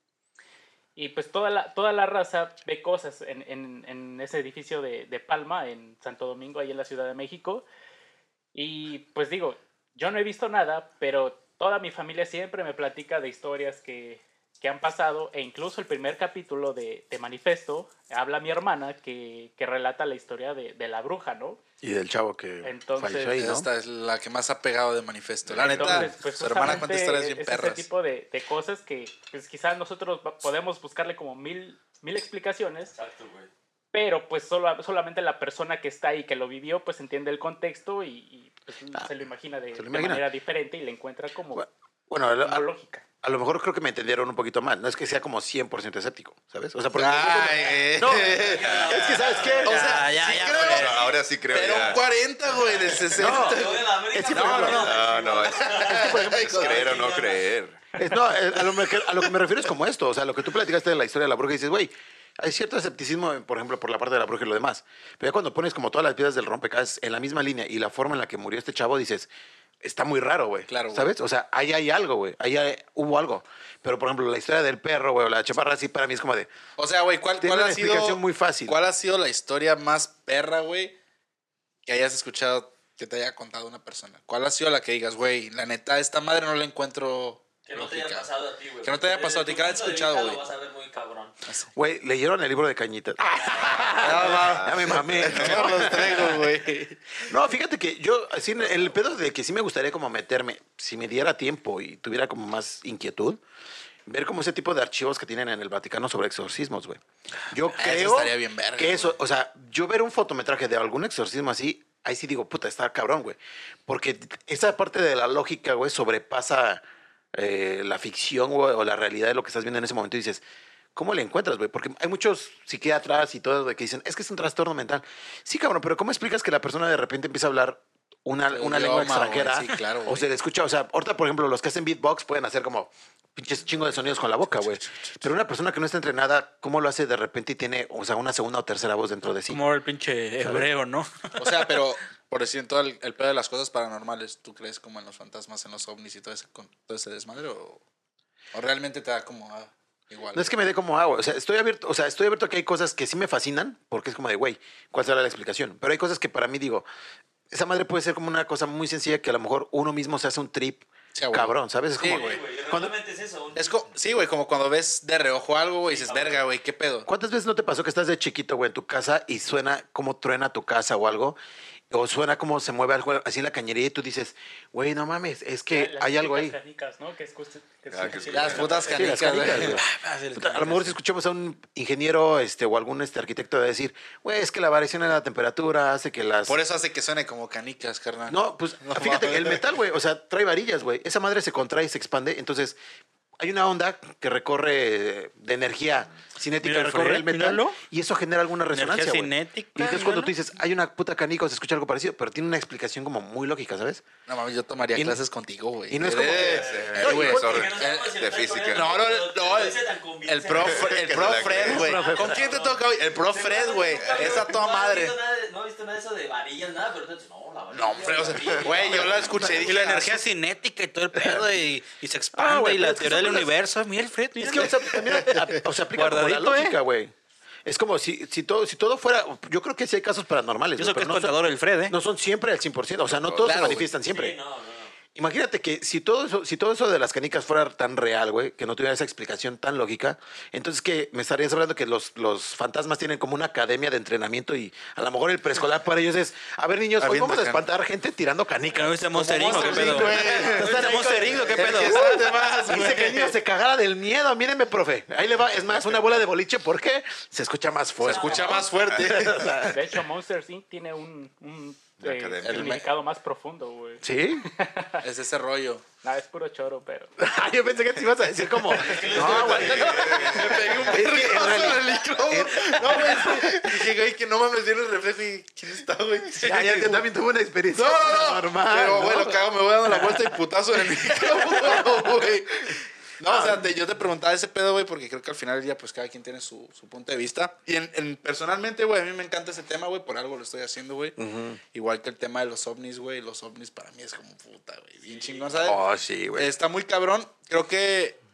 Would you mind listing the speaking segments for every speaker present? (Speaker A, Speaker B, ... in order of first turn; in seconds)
Speaker A: 1.0-7.7, 8.6-21.6, 22.6-23.4, 25.6-32.9, 33.9-41.7, 42.4-43.0, 175.7-179.6, 259.6-265.0, 266.0-267.1
Speaker B: 21.8-23.7, 25.8-26.1, 39.7-40.2, 41.5-42.7, 43.2-49.8, 53.2-55.0, 55.8-56.8, 58.0-69.3, 69.8-76.5, 77.4-78.8, 91.8-96.3, 97.3-103.4, 104.1-116.8, 117.3-120.4, 121.0-139.6, 150.3-156.9, 157.5-162.9, 167.1-171.4, 171.9-176.6, 178.9-186.6, 188.3-192.8, 193.4-204.1, 204.9-205.2, 205.9-207.7, 211.7-212.5, 219.2-219.6, 221.2-221.4, 222.3-223.5, 224.4-227.1, 227.7-231.3, 231.9-234.4, 235.2-259.9, 264.0-264.5, 267.2-273.9, 276.4-280.3, 283.3-283.6, 291.2-291.6, 295.6-296.5
Speaker C: 23.4-27.9, 46.9-48.9, 49.7-50.9, 51.5-54.8, 56.1-56.8, 70.7-71.1, 76.8-81.0, 81.9-88.3, 88.8-90.4, 91.5-91.7, 94.0-97.2, 107.8-109.2, 128.5-130.3, 134.6-135.1, 141.4-147.8, 148.5-150.5, 161.1-162.4, 163.6-167.1, 178.3-179.8, 186.4-189.6, 204.3-215.2, 217.7-220.3, 224.6-225.5, 233.4-233.9, 249.4-250.7, 251.3-253.3, 258.0-259.6, 262.4-262.9, 265.0-265.8, 268.9-277.1, 277.7-291.2, 291.7-295.8, 296.4-298.2
Speaker D: 25.5-26.0, 48.6-49.6, 50.5-53.3, 54.5-57.8, 93.8-96.1, 177.9-179.0, 206.3-208.9, 210.5-211.8, 213.9-214.5, 233.1-233.6, 258.9-259.2, 262.0-262.8, 269.2-270.7
Speaker E: 32.9-33.5, 48.1-51.2, 53.3-57.5, 87.7-91.4, 162.0-163.9, 165.9-166.5, 206.4-219.6, 234.0-234.9, 249.5-250.6, 258.1-258.4, 268.7-271.1, 295.0-295.8
Speaker F: 49.7-50.9, 139.5-141.8, 179.7-181.0, 196.6-197.8, 198.7-200.3, 219.5-225.0, 225.9-226.8, 230.8-232.0, 247.0-247.6, 248.8-252.1